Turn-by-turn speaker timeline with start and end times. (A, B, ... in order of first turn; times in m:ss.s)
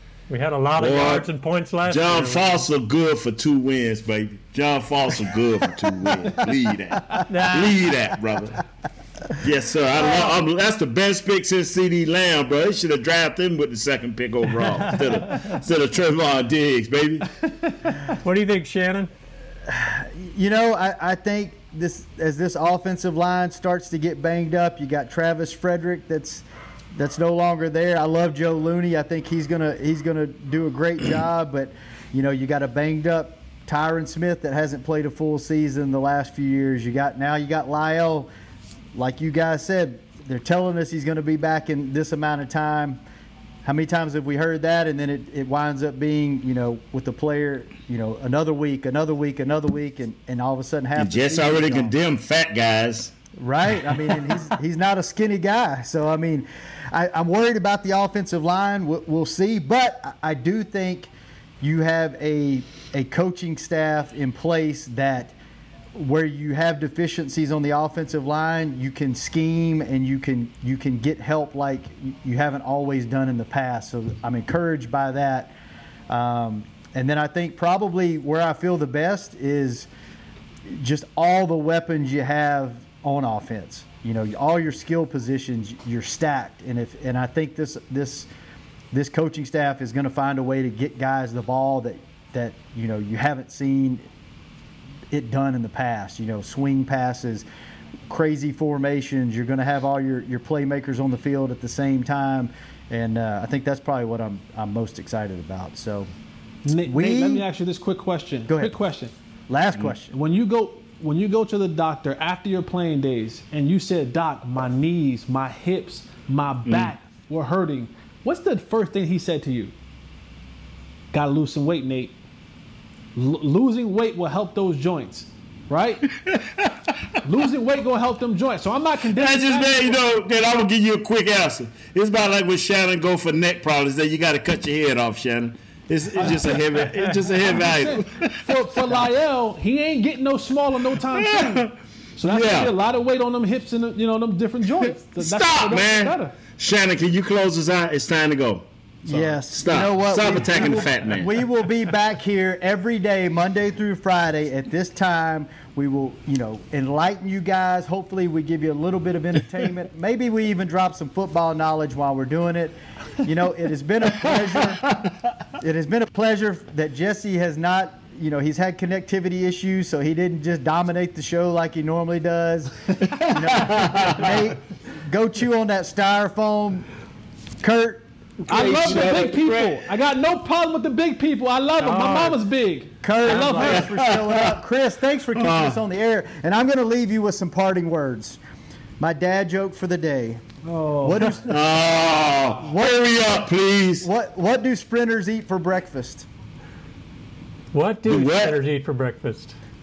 0:00.3-0:02.6 A
0:00.8-0:01.3 B
0:01.8-0:08.6 B
0:07.2-0:07.8 A
0:09.4-0:17.3 B
0:10.0-0:10.4 A
0:14.7-0:15.6 A
0:17.9-0:19.1 A
0:19.7-0:26.4 C
0:27.0-0:38.3 C
0:39.0-0:43.0 C
0:43.6-0:51.9 C
0:51.0-0:53.1 B
0:53.4-1:05.4 C
1:06.0-1:15.6 C
1:16.1-1:19.9 C
1:20.7-1:28.3 C
1:28.9-1:34.0 C
1:35.1-1:37.4 C
1:38.1-1:46.1 C
1:46.6-1:49.1 D
1:46.8-1:47.5 C
1:48.5-1:48.8 C
1:49.5-1:50.1 C
1:50.1-1:59.7 D
2:01.1-2:02.2 D
2:03.1-2:06.1 D
2:07.2-2:10.0 D
2:09.1-2:18.4 B
2:16.1-2:26.4 D
2:21.2-2:21.7 B
2:22.2-2:22.7 B
2:25.2-2:28.7 B
2:29.0-2:44.9 C
2:29.1-2:29.4 D
2:29.5-2:31.4 B
2:45.6-2:56.9 C
2:53.1-2:54.4 B
2:57.6-2:58.1 C
2:58.4-2:59.8 B
2:58.5-3:03.8 D
3:01.8-3:02.4 A
3:03.0-3:08.4 C
3:03.3-3:03.8 A
3:03.6-3:04.6 B
3:05.4-3:05.8 B
3:09.0-3:10.4 C
3:10.6-3:11.4 D
3:11.0-3:11.6 C
3:11.5-3:14.1 B
3:12.6-3:13.4 C
3:14.0-3:16.3 C
3:17.7-3:19.6 A
3:18.1-3:18.6 B